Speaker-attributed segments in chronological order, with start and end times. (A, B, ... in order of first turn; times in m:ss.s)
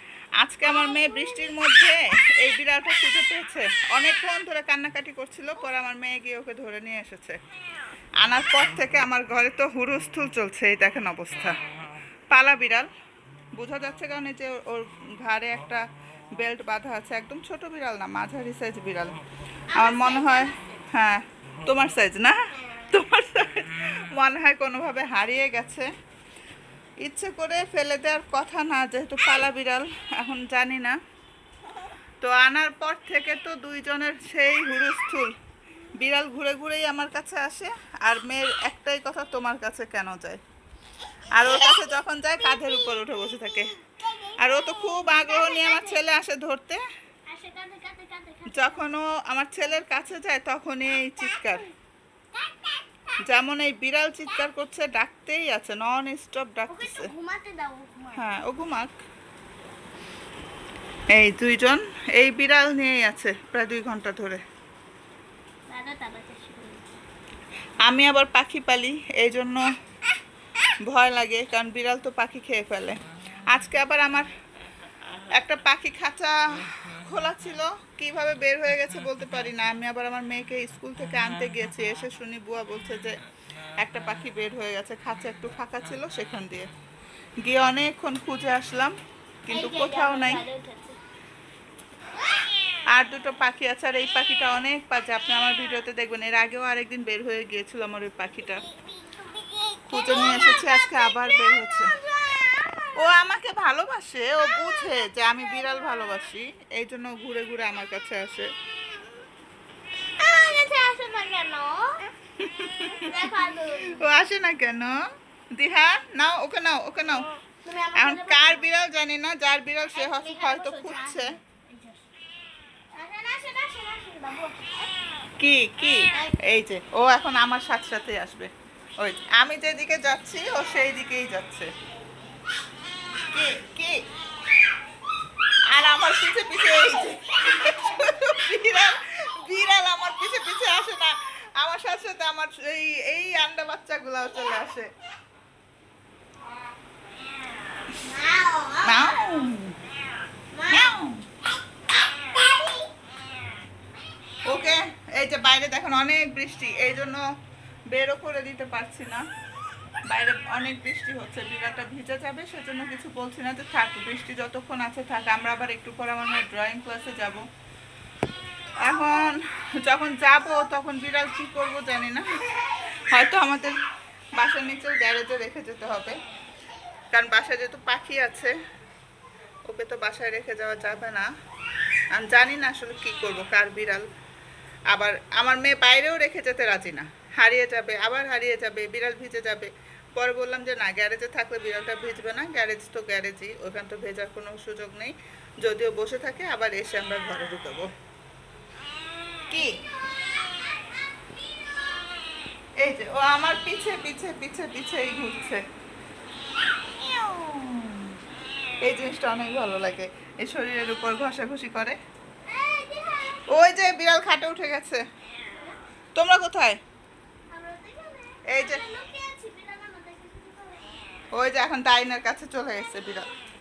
0:00.4-0:07.4 A
0:08.2-0:11.6 A
0:12.3-0:12.9 A
0:13.6-0:15.8 A
0:16.4-0:19.2 A
0:19.7-0:20.8 B
0:19.8-0:25.9 A
0:27.0-0:31.0 A
0:32.2-0:35.3 A
0:36.0-0:40.4 A
0:41.3-0:43.7 A
0:44.1-0:46.0 B
0:44.4-0:46.8 A
0:47.3-0:49.0 B
0:48.5-0:51.7 A
0:52.3-0:53.0 B
0:53.2-0:57.1 A
0:56.7-0:58.3 B
0:58.2-0:58.9 A
1:01.1-1:04.4 A
1:05.7-1:07.0 B
1:07.8-1:09.6 A
1:10.9-1:13.0 A
1:13.5-1:14.3 A
1:15.3-1:23.2 A
1:23.8-1:26.7 A
1:27.4-1:28.9 A
1:29.5-1:30.4 A
1:29.5-1:31.0 B
1:32.9-1:38.7 A
1:38.6-1:43.1 B
1:39.9-1:41.9 A
1:43.0-1:48.5 A
1:45.7-1:46.2 B
1:50.2-1:52.1 B
1:52.4-1:53.2 A
1:53.0-1:54.1 B
1:53.8-1:55.0 A
1:55.5-1:57.3 A
1:57.6-1:58.7 B
1:58.0-2:01.4 A
1:59.9-2:02.0 B
2:02.9-2:05.0 B
2:05.4-2:08.5 A
2:06.1-2:06.4 B
2:09.0-2:11.7 A
2:13.3-2:14.0 A
2:15.7-2:24.9 A
2:27.9-2:29.2 B
2:28.8-2:29.8 A
2:30.5-2:30.9 B
2:30.6-2:31.2 A
2:32.1-2:32.9 B
2:34.5-2:37.2 A
2:37.9-2:39.2 A
2:40.1-2:47.4 A
2:48.8-2:52.2 A
2:53.1-2:53.8 A
2:54.4-2:56.2 A
2:57.1-2:58.6 A
2:59.7-3:01.3 A
3:02.1-3:04.0 A
3:04.9-3:17.9 A
3:19.5-3:19.8 A
3:22.8-3:25.6 A
3:27.0-3:28.1 A
3:28.8-3:32.0 A
3:32.5-3:33.6 B
3:33.5-3:35.0 A
3:36.1-3:36.8 A
3:37.5-3:41.0 B
3:38.5-3:38.8 A
3:41.3-3:43.3 A